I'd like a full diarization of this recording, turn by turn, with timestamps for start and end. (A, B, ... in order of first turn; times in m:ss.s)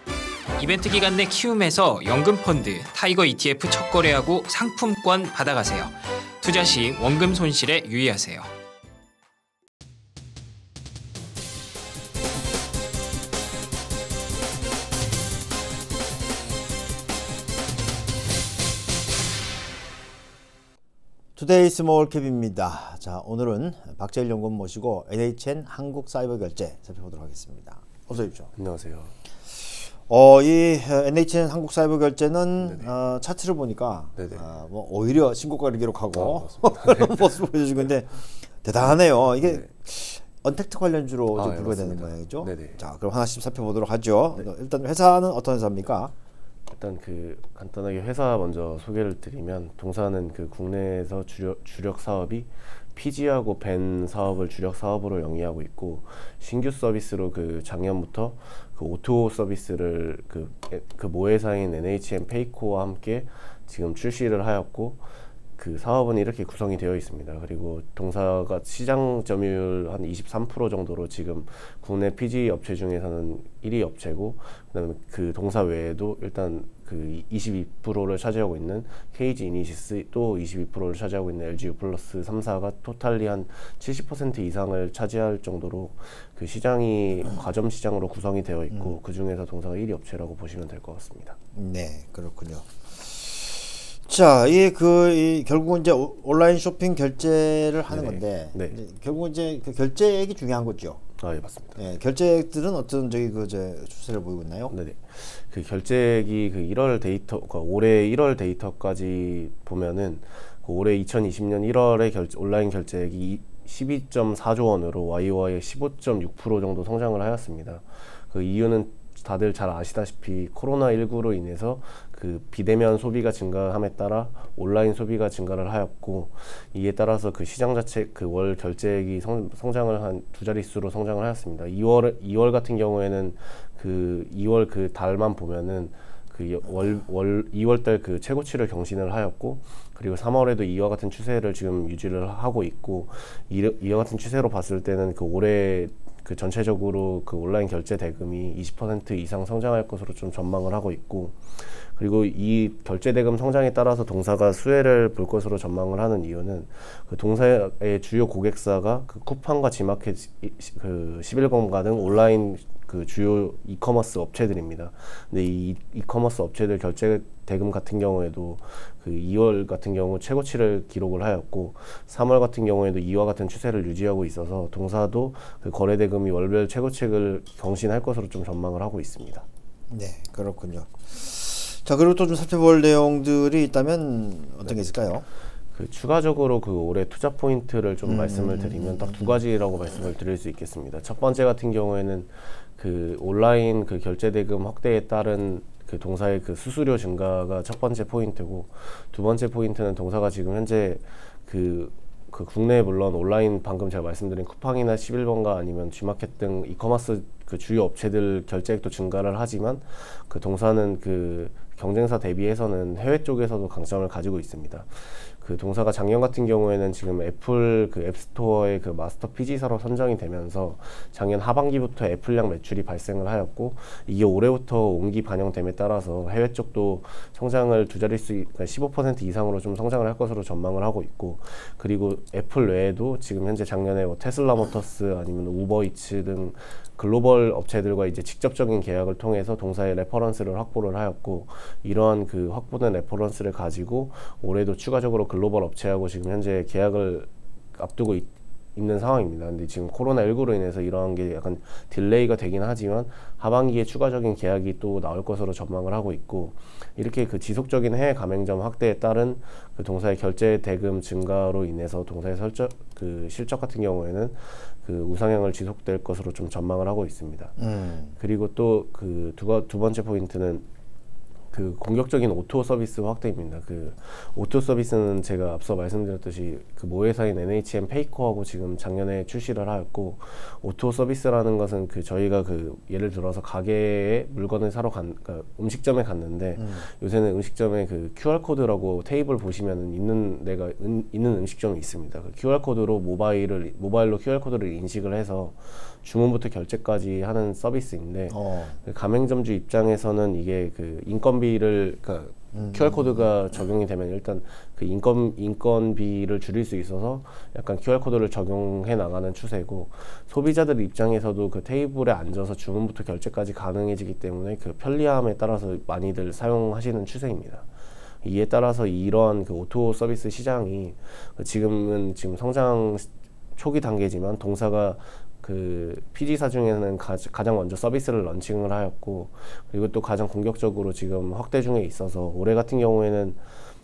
0:00.6-0:08.5 A
0:21.4-0:28.5 B
0:28.5-0:29.1 C
0:29.6-0:46.1 B
0:32.6-0:32.9 C
0:34.2-0:34.5 C
0:36.1-0:37.5 C
0:38.8-0:39.7 C
0:41.3-0:42.8 C
0:46.7-1:31.4 C
1:31.6-1:41.0 B
1:37.9-1:38.8 C
1:41.2-1:42.0 C
1:41.8-1:44.7 B
1:44.7-2:59.4 C
2:59.9-3:05.2 B
3:05.7-4:30.7 C
3:08.0-3:09.4 B
4:27.6-4:28.2 B
4:31.5-5:17.7 C
4:46.6-4:46.9 B
4:58.3-4:58.8 B
5:02.5-5:03.2 B
5:18.2-5:33.4 C